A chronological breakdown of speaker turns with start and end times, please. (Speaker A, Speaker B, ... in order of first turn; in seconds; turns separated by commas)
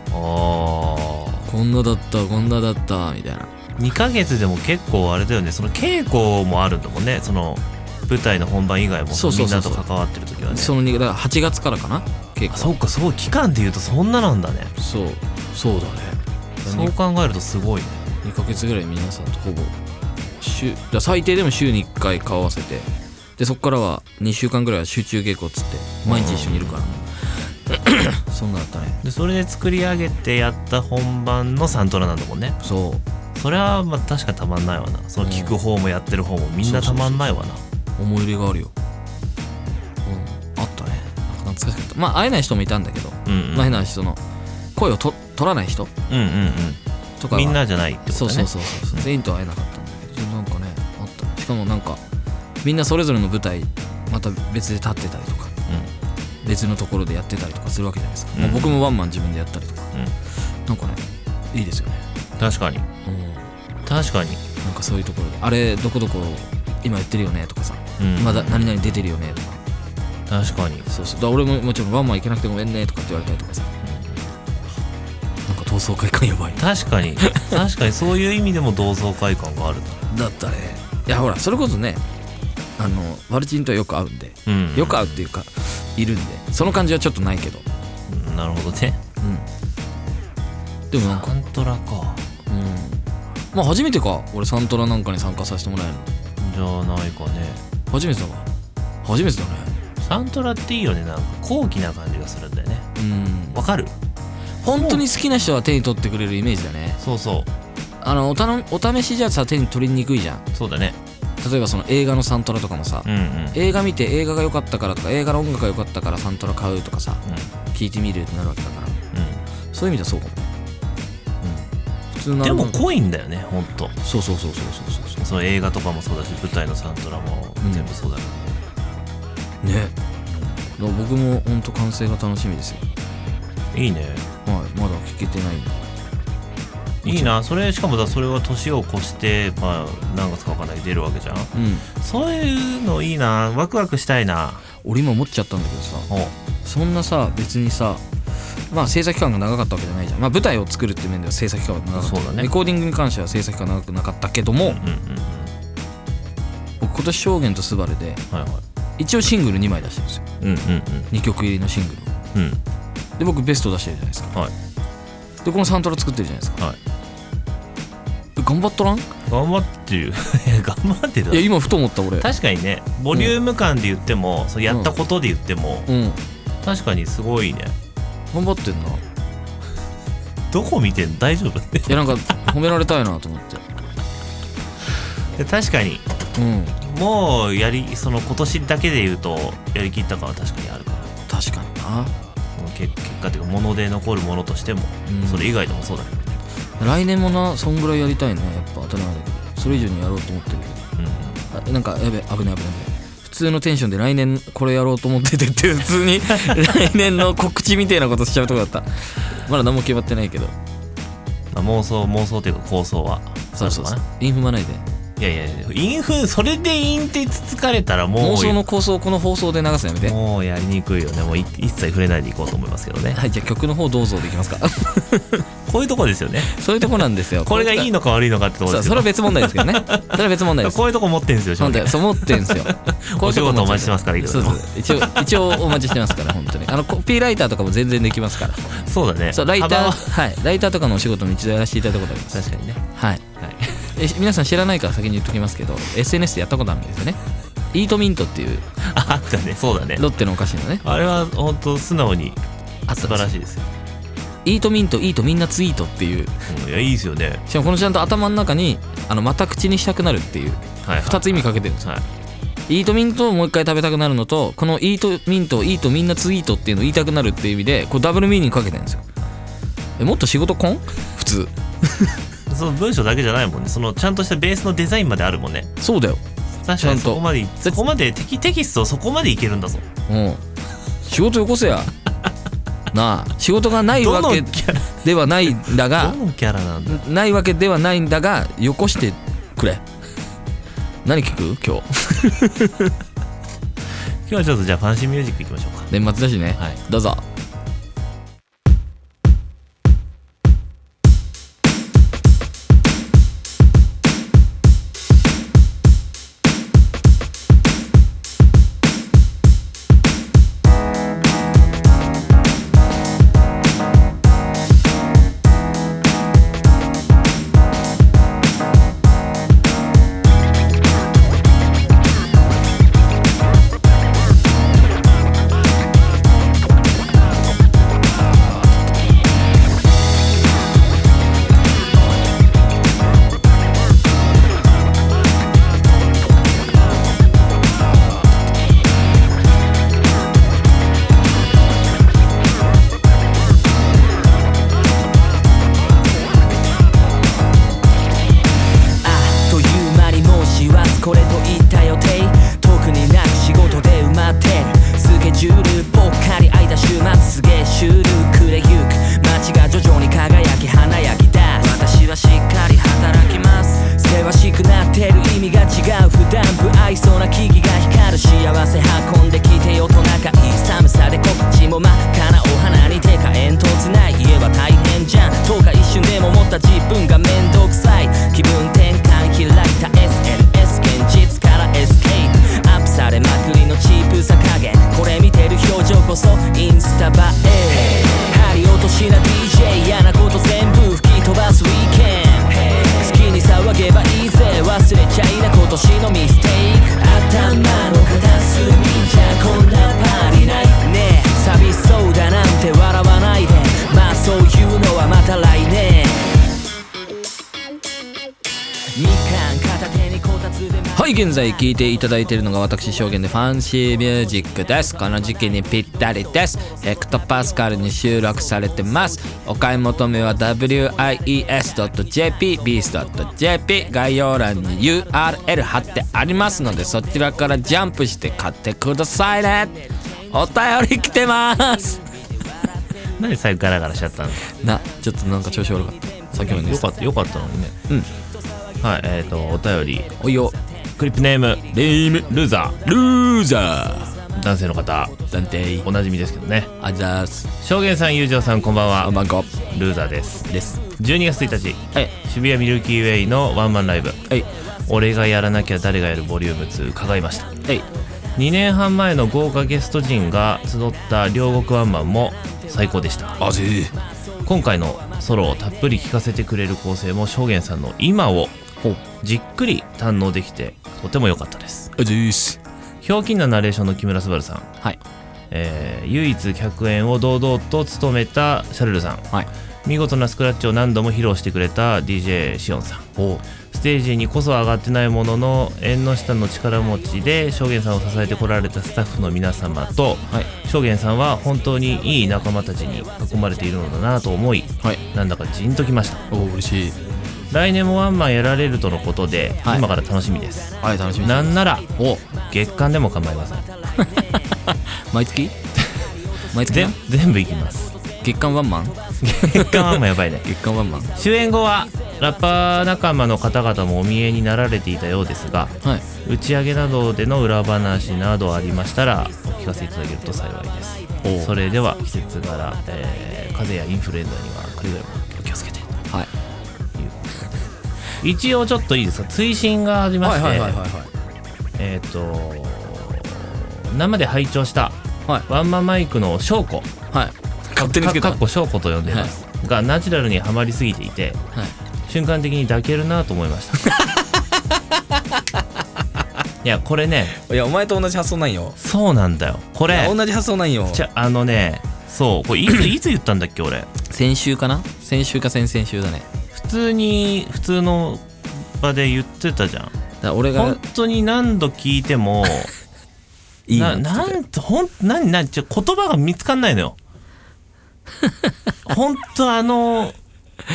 Speaker A: 0.1-1.5, Speaker B: 1.5-3.5, Speaker A: 3.8-10.7, Speaker B: 9.1-9.8, Speaker B: 10.5-12.7, Speaker A: 12.5-14.7, Speaker B: 14.8-16.9, Speaker A: 16.6-18.1, Speaker B: 18.2-19.8, Speaker B: 20.4-26.9, Speaker A: 26.1-27.0, Speaker B: 27.7-29.0, Speaker A: 29.0-32.6, Speaker B: 32.6-33.0, Speaker A: 33.4-37.6, Speaker B: 35.2-35.6, Speaker B: 36.6-37.4, Speaker B: 38.0-38.7, Speaker B: 40.1-44.2, Speaker A: 43.3-43.8, Speaker B: 44.8-45.9, Speaker A: 46.1-46.8, Speaker B: 47.2-52.0, Speaker A: 47.3-49.0, Speaker B: 52.6-55.5, Speaker A: 55.7-55.9, Speaker B: 56.4-59.9, Speaker A: 58.4-58.8, Speaker B: 60.7-61.0, Speaker B: 61.5-62.0, Speaker A: 62.4-62.9, Speaker B: 63.0-63.5, Speaker A: 63.8-64.4, Speaker B: 64.6-69.6, Speaker A: 68.0-68.9, Speaker A: 70.3-70.9, Speaker B: 70.9-73.7, Speaker A: 73.8-74.3, Speaker B: 75.5-76.6, Speaker A: 76.6-80.1, Speaker B: 77.2-77.6, Speaker B: 80.1-82.0, Speaker B: 82.8-87.7, Speaker A: 84.5-85.2, Speaker A: 88.1-89.0, Speaker B: 89.2-89.5, Speaker B: 90.9-91.3, Speaker A: 91.0-92.3, Speaker B: 92.5-96.1, Speaker A: 96.4-97.6, Speaker B: 97.9-98.5, Speaker B: 99.0-99.7, Speaker A: 100.0-102.9, Speaker B: 103.0-103.7, Speaker A: 103.5-104.0, Speaker B: 104.6-107.0, Speaker A: 104.7-105.1, Speaker A: 107.0-107.5, Speaker B: 108.0-110.4, Speaker A: 110.5-111.0, Speaker B: 111.4-119.0, Speaker A: 113.0-113.6, Speaker A: 119.1-119.4, Speaker B: 119.7-120.5, Speaker A: 121.4-121.7, Speaker B: 122.1-122.8, Speaker A: 122.4-124.0, Speaker B: 124.0-125.2, Speaker A: 125.2-128.6, Speaker B: 127.6-127.9, Speaker B: 129.6-129.9, Speaker A: 130.3-130.6, Speaker B: 130.8-132.8, Speaker A: 133.7-134.3, Speaker B: 134.5-135.8, Speaker B: 137.0-137.3, Speaker A: 137.0-144.6, Speaker B: 141.5-141.9, Speaker B: 144.8-146.1, Speaker A: 146.1-146.3, Speaker B: 146.6-154.8, Speaker A: 152.0-152.5, Speaker A: 154.6-155.5, Speaker B: 156.8-158.2, Speaker A: 158.3-158.6, Speaker B: 159.0-160.2, Speaker A: 160.4-161.1, Speaker B: 161.1-162.1, Speaker A: 162.3-162.6, Speaker B: 163.2-164.3, Speaker B: 165.4-166.6, Speaker B: 168.4-169.1, Speaker A: 169.3-171.5, Speaker B: 171.3-172.3, Speaker A: 172.2-175.9, Speaker B: 175.9-176.2, Speaker A: 176.6-177.8, Speaker B: 178.3-179.0, Speaker A: 180.5-182.1, Speaker B: 181.9-183.6, Speaker A: 185.3-186.1, Speaker B: 186.4-186.8, Speaker A: 186.8-191.1, Speaker B: 191.3-192.1, Speaker A: 192.6-196.4, Speaker B: 195.1-195.5, Speaker B: 196.8-200.8, Speaker A: 201.0-201.4, Speaker B: 201.5-210.6, Speaker A: 206.4-206.7, Speaker A: 211.5-214.0, Speaker B: 213.6-214.8, Speaker A: 215.2-218.6, Speaker B: 218.2-220.2, Speaker A: 220.0-223.2, Speaker B: 223.1-225.5, Speaker A: 225.7-226.5, Speaker B: 226.5-227.9, Speaker A: 227.4-235.8, Speaker B: 228.7-230.8, Speaker B: 231.6-238.8, Speaker A: 238.7-240.1, Speaker B: 239.3-243.2, Speaker A: 242.3-242.8, Speaker A: 243.4-243.8, Speaker B: 243.9-247.2, Speaker B: 247.7-248.7, Speaker A: 248.8-250.1, Speaker B: 250.0-250.8, Speaker A: 250.8-252.4, Speaker B: 252.9-253.3, Speaker A: 253.0-253.7, Speaker B: 254.4-256.4, Speaker A: 256.5-257.4, Speaker B: 257.5-261.9, Speaker A: 260.8-262.1, Speaker B: 262.7-269.1, Speaker B: 270.0-272.2, Speaker A: 272.5-275.7, Speaker B: 275.8-276.2, Speaker A: 276.6-279.9, Speaker B: 276.8-277.8, Speaker B: 280.1-280.4, Speaker B: 281.0-281.9, Speaker B: 282.9-286.2, Speaker A: 283.9-287.0, Speaker B: 286.9-289.8, Speaker B: 291.1-292.9, Speaker A: 294.2-295.9, Speaker B: 295.9-297.2, Speaker C: 349.0-406.4, Speaker C: 408.9-411.1, Speaker B: 410.9-429.8, Speaker C: 418.7-419.1, Speaker B: 430.3-432.0, Speaker A: 433.2-434.5, Speaker B: 434.5-436.9, Speaker A: 436.3-437.8, Speaker A: 438.8-440.1, Speaker B: 440.2-440.6, Speaker A: 441.0-442.8, Speaker B: 441.7-444.2, Speaker A: 444.3-445.1, Speaker B: 445.3-445.9, Speaker A: 445.8-446.7, Speaker B: 446.8-447.5, Speaker A: 447.6-454.2, Speaker B: 449.0-449.5, Speaker B: 450.5-450.8, Speaker A: 454.9-457.5, Speaker A: 458.4-463.4, Speaker B: 463.4-463.9, Speaker A: 464.4-468.6, Speaker A: 469.2-471.9, Speaker B: 472.0-472.6, Speaker A: 473.0-474.7, Speaker A: 475.5-479.3, Speaker A: 479.9-496.2, Speaker B: 496.3-497.0, Speaker A: 497.5-503.7, Speaker B: 500.8-502.2, Speaker B: 503.9-505.5, Speaker B: 506.5-507.0, Speaker A: 506.6-507.9, Speaker B: 508.2-511.1, Speaker A: 509.2-510.5, Speaker A: 511.1-525.9, Speaker B: 521.2-521.6, Speaker A: 527.0-527.7, Speaker A: 528.2-530.8, Speaker B: 530.2-531.1, Speaker A: 531.8-536.9, Speaker B: 537.1-538.4, Speaker A: 537.8-541.4, Speaker B: 539.1-539.3, Speaker A: 542.1-543.8, Speaker B: 543.9-544.3, Speaker A: 546.6-547.4, Speaker B: 547.4-548.8, Speaker A: 548.8-550.2, Speaker B: 549.9-551.0, Speaker A: 550.9-553.9, Speaker B: 554.0-556.3, Speaker A: 556.5-559.9, Speaker B: 560.2-560.8, Speaker A: 560.5-562.7, Speaker B: 563.7-564.4, Speaker A: 563.7-567.0, Speaker B: 568.2-568.5, Speaker A: 568.9-570.2